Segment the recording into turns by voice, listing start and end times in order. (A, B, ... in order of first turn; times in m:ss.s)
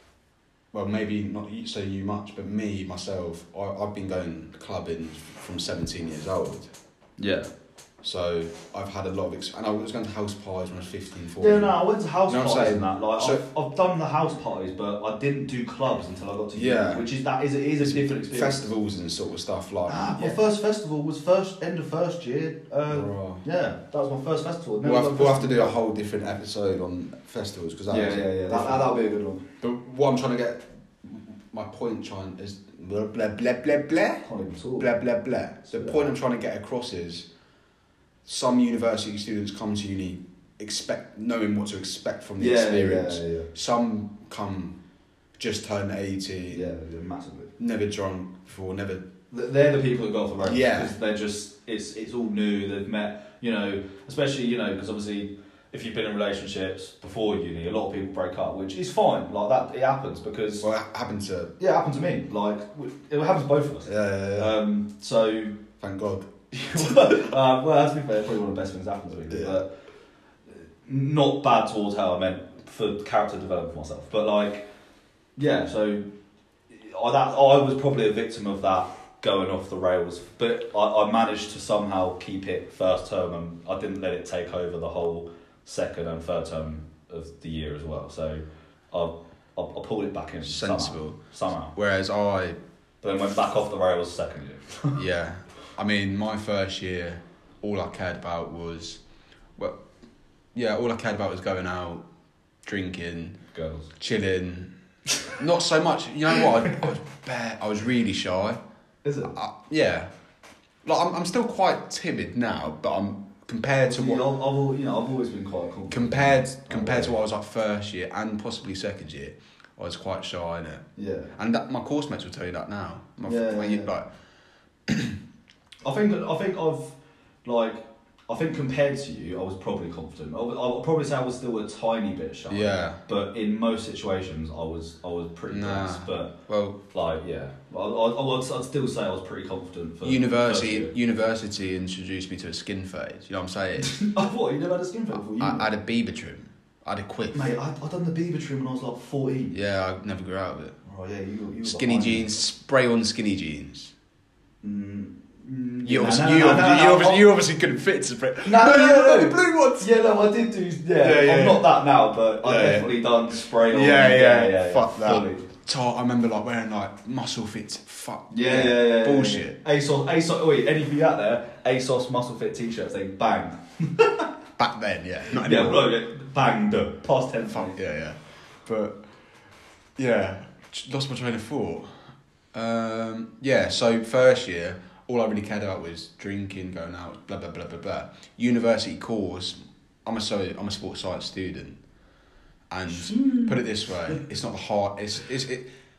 0:00.7-0:06.7 A
0:07.2-0:07.5 B
0:08.0-0:13.4 A
0:11.4-0:18.7 B
0:16.5-0:17.1 A
0:17.8-0:20.4 A
0:19.9-0:25.8 B
0:22.9-0:23.4 A
0:24.8-0:29.0 A
0:27.9-0:29.4 B
0:29.6-0:34.3 A
0:34.2-0:34.9 B
0:34.8-0:37.3 A
0:35.7-0:36.0 B
0:38.3-0:44.8 A
0:42.4-0:43.5 B
0:45.4-0:46.7 A
0:46.5-0:47.5 B
0:47.6-0:49.1 A
0:49.3-1:00.7 B
0:50.4-0:50.9 A
1:00.6-1:01.5 A
1:01.6-1:05.6 B
1:03.9-1:04.6 A
1:05.8-1:07.1 A
1:06.5-1:09.7 B
1:09.3-1:09.6 A
1:10.5-1:14.7 B
1:15.4-1:16.0 B
1:16.7-1:31.7 B
1:30.4-1:31.2 A
1:31.7-1:32.6 A
1:33.0-1:35.0 B
1:35.0-1:39.0 A
1:40.6-1:42.0 A
1:42.6-1:43.4 A
1:43.5-1:43.9 B
1:44.0-1:44.7 A
1:45.3-1:48.6 A
1:49.0-1:49.3 B
1:49.3-1:50.1 A
1:50.8-1:54.2 A
1:53.8-1:57.2 B
1:55.9-2:04.1 A
2:01.0-2:01.3 B
2:03.2-2:03.9 B
2:04.9-2:05.2 A
2:05.8-2:16.4 B
2:12.5-2:13.0 A
2:15.5-2:16.8 A
2:16.9-2:20.9 B
2:20.0-2:24.0 A
2:23.8-2:25.7 B
2:25.4-2:27.5 A
2:27.3-2:29.6 B
2:29.5-2:30.8 A
2:30.8-2:32.3 B
2:31.6-2:33.9 A
2:34.6-2:37.3 B
2:35.8-2:39.9 A
2:38.4-2:45.5 B
2:41.0-2:41.7 A
2:42.4-2:49.6 A
2:48.3-2:54.3 B
2:54.6-2:55.9 A
2:55.3-2:57.8 B
2:57.5-2:59.0 A
3:00.0-3:11.8 A
3:12.7-3:15.7 A
3:12.9-3:14.2 B